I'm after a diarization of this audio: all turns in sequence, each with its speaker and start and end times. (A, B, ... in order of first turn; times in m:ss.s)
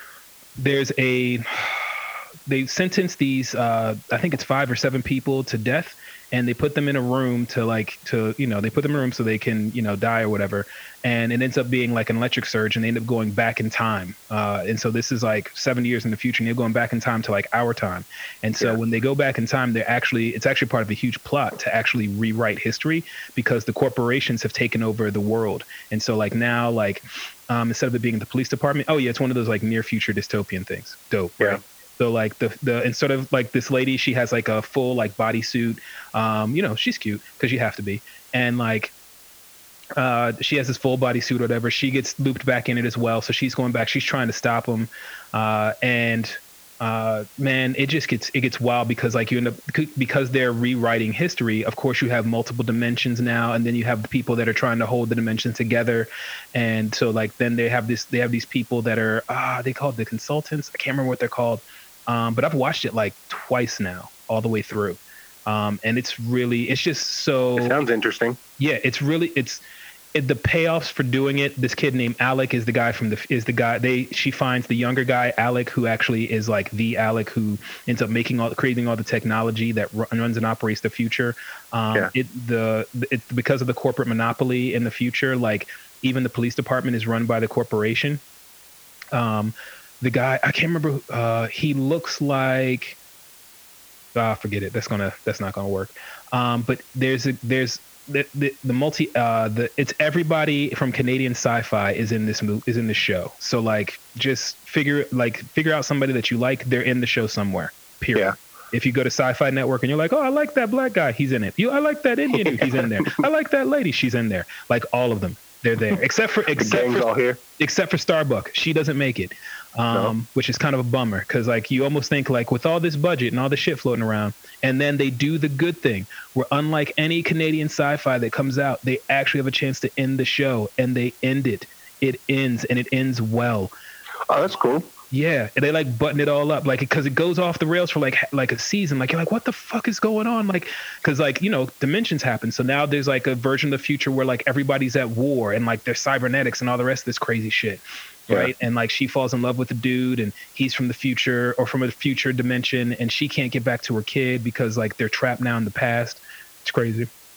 0:00.6-0:01.9 A
0:02.5-0:38.9 A
0:40.0-1:07.8 A
1:07.6-1:08.4 B
1:08.6-1:09.6 A
1:10.1-1:28.2 A
1:29.1-1:33.0 A
1:34.1-1:57.1 A
1:52.4-1:53.2 B
1:56.6-1:57.4 B
1:57.6-2:13.7 A
2:14.3-2:14.9 B
2:15.1-2:37.1 A